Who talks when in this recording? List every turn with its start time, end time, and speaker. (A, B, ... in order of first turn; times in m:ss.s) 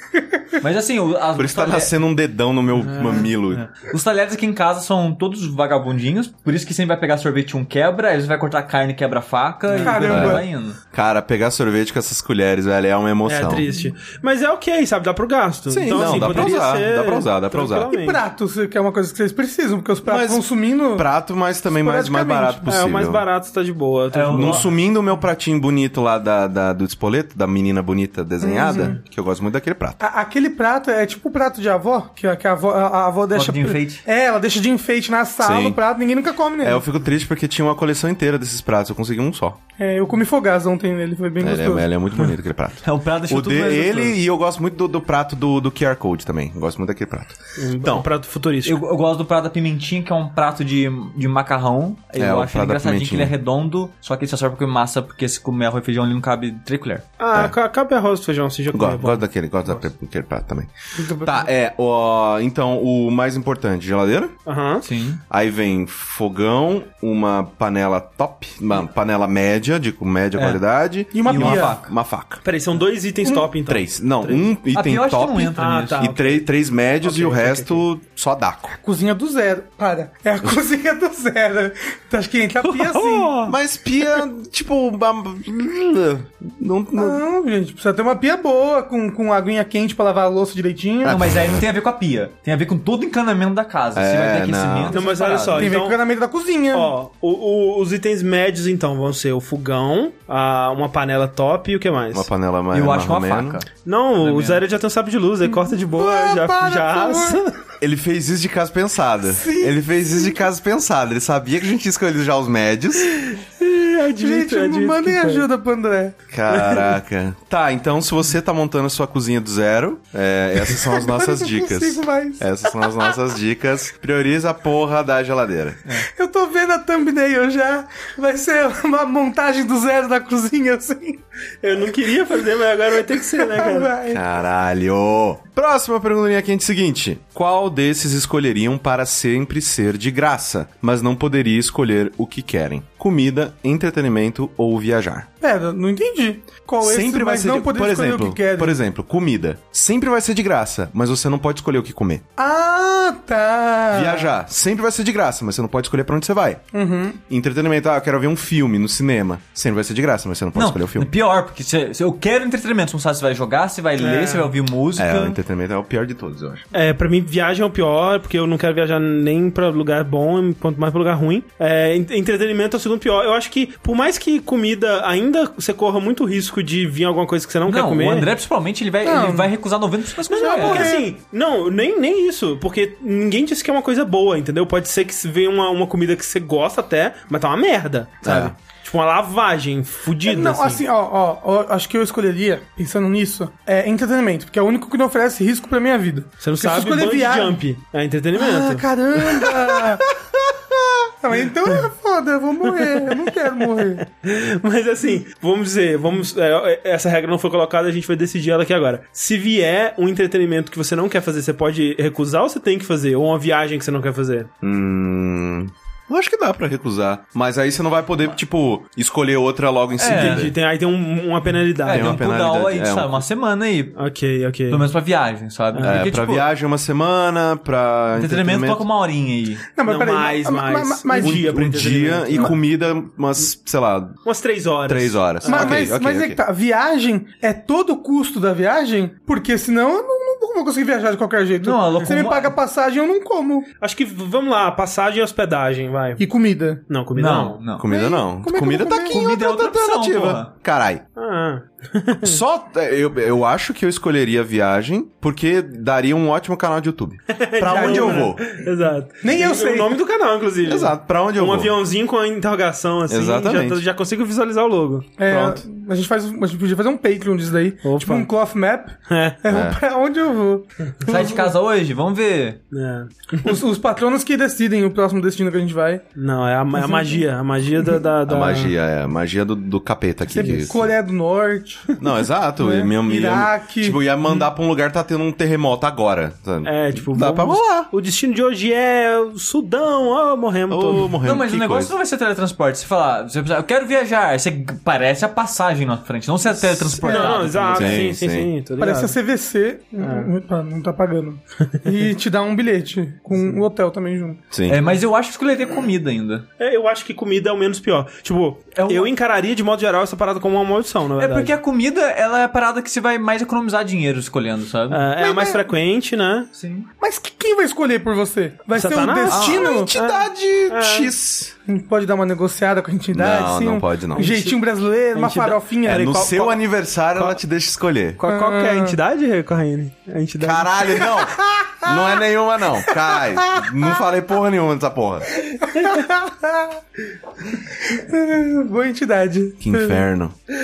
0:00.1-0:00.6 A
0:00.6-0:01.9 B
0:01.4-0:03.7 C
0:02.8-0:10.8 B
0:09.7-0:10.1 D
0:09.8-0:10.5 A
0:10.0-0:13.7 C
0:13.2-0:18.2 D
0:15.7-0:17.9 C
0:15.9-0:16.6 B
0:17.9-0:21.1 A
0:20.0-0:23.2 C
0:21.7-0:22.8 A
0:22.7-0:24.7 D
0:24.1-0:24.7 B
0:24.3-0:30.0 C
0:28.4-0:29.0 A
0:30.0-0:36.8 A
0:33.3-0:34.0 B
0:35.4-0:35.8 C
0:36.6-0:39.6 C
0:39.8-0:41.9 A
0:41.4-0:48.1 C
0:42.8-0:44.2 B
0:47.6-0:48.8 D
0:48.6-0:57.1 B
0:52.2-0:53.3 C
0:57.2-0:59.2 D
0:58.7-1:04.3 C
1:01.0-1:01.5 A
1:04.5-1:04.9 D
1:04.8-1:05.2 B
1:05.3-1:12.4 C
1:10.4-1:10.6 B
1:11.1-1:11.8 A
1:11.2-1:11.9 B
1:12.4-1:14.4 D
1:13.7-1:18.8 C
1:14.6-1:16.1 B
1:15.6-1:16.4 D
1:17.0-1:17.8 D
1:18.8-1:23.4 A
1:22.8-1:23.4 B
1:22.9-1:23.5 D
1:23.4-1:27.2 C
1:27.0-1:31.2 A
1:31.0-1:35.8 B
1:34.0-1:35.0 C
1:34.9-1:36.0 D
1:35.5-1:36.9 A
1:36.7-1:42.3 D
1:42.1-1:43.6 C
1:42.7-1:44.6 B
1:43.8-1:47.6 D
1:45.4-1:47.4 A
1:47.8-1:53.1 C
1:49.3-1:50.4 A
1:53.1-1:55.4 D
1:54.2-1:56.2 A
1:56.3-2:05.9 C
1:56.5-1:56.9 D
2:00.7-2:03.2 A
2:06.0-2:11.2 A
2:11.6-2:13.9 D
2:13.4-2:14.2 A
2:14.1-2:25.3 C
2:25.4-2:28.8 A
2:26.8-2:32.2 C
2:32.4-2:34.4 A
2:33.9-2:36.6 C
2:36.7-2:37.2 A
2:37.3-2:41.1 C
2:40.6-2:45.4 B
2:44.0-2:44.5 D
2:45.0-2:46.6 C
2:46.7-2:58.3 D
2:57.7-3:01.0 B
2:59.0-2:59.5 A
3:00.3-3:10.8 D
3:00.3-3:01.1 A
3:08.2-3:08.5 C
3:10.2-3:17.6 A
3:16.4-3:19.9 D
3:18.3-3:20.2 A
3:21.2-3:24.0 A
3:22.7-3:34.5 D
3:34.6-3:40.5 C
3:40.0-3:40.5 B
3:40.1-3:42.2 D
3:41.8-3:44.0 B
3:41.9-3:43.2 C
3:44.0-3:44.8 D
3:44.7-3:46.5 B
3:45.7-3:46.0 D
3:45.8-3:48.8 C
3:48.2-3:49.7 B
3:49.8-3:51.6 A
3:49.8-3:52.6 D
3:51.2-3:54.2 C
3:54.2-3:55.9 D
3:54.9-3:56.4 C
3:55.5-4:03.7 A
4:01.6-4:02.6 B
4:03.8-4:06.2 D
4:06.2-4:06.8 A
4:06.9-4:07.6 D
4:07.2-4:07.9 B
4:07.8-4:11.0 C
4:07.9-4:09.2 A
4:09.1-4:10.5 B
4:11.2-4:12.4 D
4:12.2-4:18.4 C
4:17.3-4:25.1 D
4:17.7-4:18.3 A
4:19.2-4:20.0 A
4:20.6-4:21.7 C
4:23.1-4:23.8 C
4:25.2-4:31.5 A
4:25.3-4:25.6 C
4:27.8-4:28.3 D
4:29.1-4:29.4 D
4:29.5-4:29.8 C
4:31.0-4:32.6 B
4:32.7-4:33.6 D
4:33.4-4:36.0 A
4:36.2-4:38.7 D
4:36.7-4:37.2 A
4:38.3-4:40.9 C
4:40.3-4:42.0 A
4:42.0-4:47.9 C
4:42.6-4:44.0 A
4:46.6-4:51.1 D
4:50.7-4:51.9 C
4:51.1-4:58.1 B
4:56.9-4:58.5 C
4:57.0-4:59.2 D
4:58.8-5:04.4 A
5:00.0-5:00.3 D
5:03.3-5:03.6 D
5:04.5-5:04.8 C
5:04.7-5:06.5 B
5:06.6-5:11.5 D
5:08.7-5:09.1 B
5:11.2-5:15.0 B
5:14.9-5:16.5 D
5:15.2-5:15.7 A
5:16.6-5:16.9 B
5:17.0-5:19.9 A
5:18.8-5:21.1 D
5:19.3-5:21.5 C
5:19.3-5:19.7 B
5:21.7-5:26.2 A
5:23.1-5:24.3 C
5:24.2-5:24.6 D
5:25.1-5:26.6 D
5:25.8-5:28.2 C
5:28.2-5:31.1 D
5:28.2-5:29.0 A
5:30.4-5:35.3 C
5:30.9-5:32.2 A
5:32.8-5:33.9 A
5:35.6-5:36.8 A
5:35.7-5:36.0 D
5:37.8-5:40.0 A
5:39.6-5:40.3 C